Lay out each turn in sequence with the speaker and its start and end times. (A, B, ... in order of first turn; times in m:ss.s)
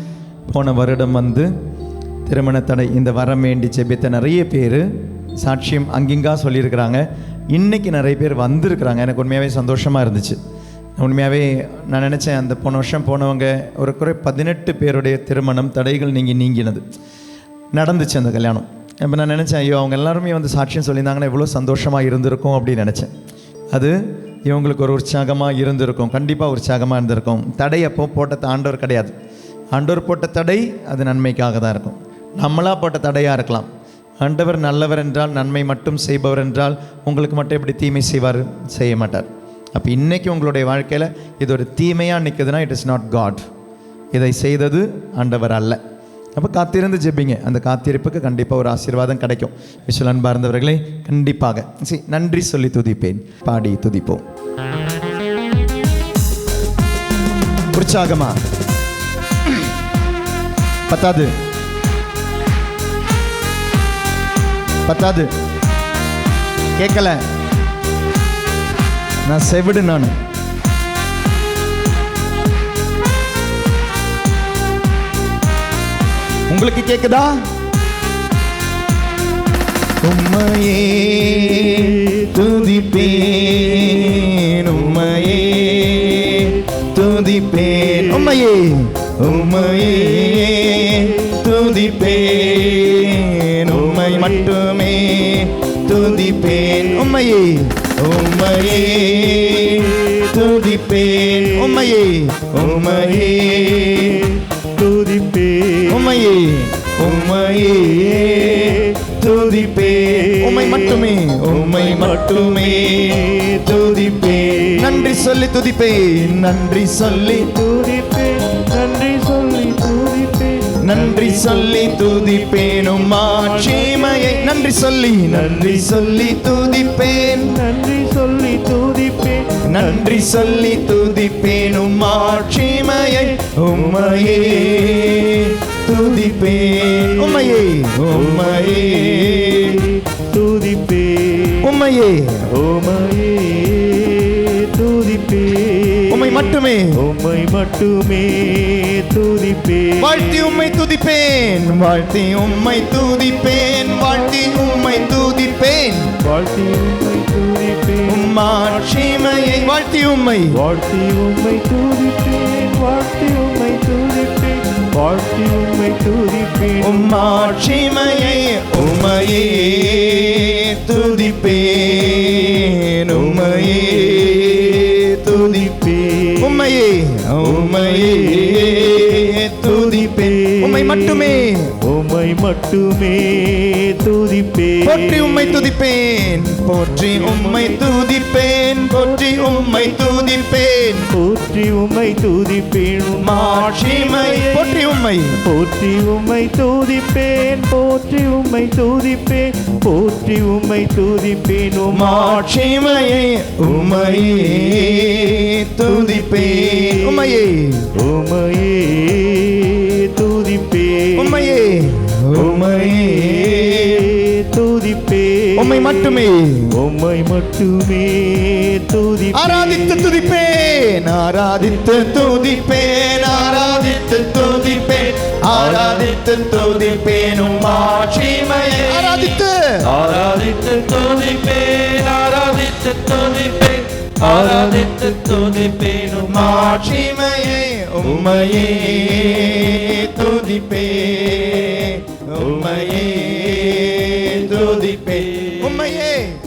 0:00.5-0:01.5 A
0:02.3-0:04.9 A
0:05.4-0:10.4 A
0:11.0-0:16.8 A
0:17.7-0:23.1 A
0:23.7-0:29.2 A
0:29.7-0:33.7 A
0:34.2-0:43.5 A
0:44.1-0:45.8 A
0:46.4-0:54.2 A
0:57.7-0:58.4 A
1:00.9-1:01.3 A
1:04.9-1:05.3 A
1:06.8-1:07.2 A
1:09.2-1:10.2 A
1:16.5-1:17.5 A
1:20.0-1:44.2 A
1:21.4-1:24.0 B
1:24.8-1:25.2 B
1:26.1-1:26.6 B
1:27.7-1:28.3 B
1:29.4-1:31.4 B
1:33.6-1:34.5 B
1:35.9-1:37.1 B
1:39.5-1:41.9 B
1:42.6-1:46.2 B
1:45.9-1:53.2 A
1:48.2-1:55.3 B
1:54.8-1:57.5 A
1:57.1-2:04.7 B
2:00.8-2:07.6 A
2:05.3-2:06.0 B
2:07.4-2:10.2 B
2:09.7-2:19.8 A
2:12.1-2:15.1 B
2:15.9-2:21.7 B
2:21.6-2:22.5 A
2:22.5-2:30.7 B
2:26.1-2:27.0 A
2:30.0-2:36.1 A
2:34.0-2:35.3 B
2:36.2-2:39.3 B
2:38.1-2:40.5 A
2:40.5-2:47.5 B
2:46.8-2:55.6 A
2:53.1-2:56.6 B
2:56.4-3:01.7 A
2:57.4-3:05.7 B
3:04.8-3:11.1 A
3:06.9-3:07.9 B
3:08.9-3:10.3 B
3:11.1-3:22.5 B
3:13.2-3:15.4 A
3:21.9-3:27.9 A
3:23.6-3:27.2 B
3:28.0-3:31.4 B
3:31.2-3:34.1 A
3:32.3-3:36.2 B
3:35.6-3:36.7 A
3:36.7-3:40.2 B
3:39.3-3:49.8 A
3:45.5-3:46.2 B
3:48.0-3:49.4 C
3:49.9-3:51.1 B
3:51.0-3:56.6 C
3:54.2-3:55.6 B
3:56.3-4:06.4 A
3:58.0-3:59.2 B
4:02.3-4:05.6 B
4:04.5-4:05.8 C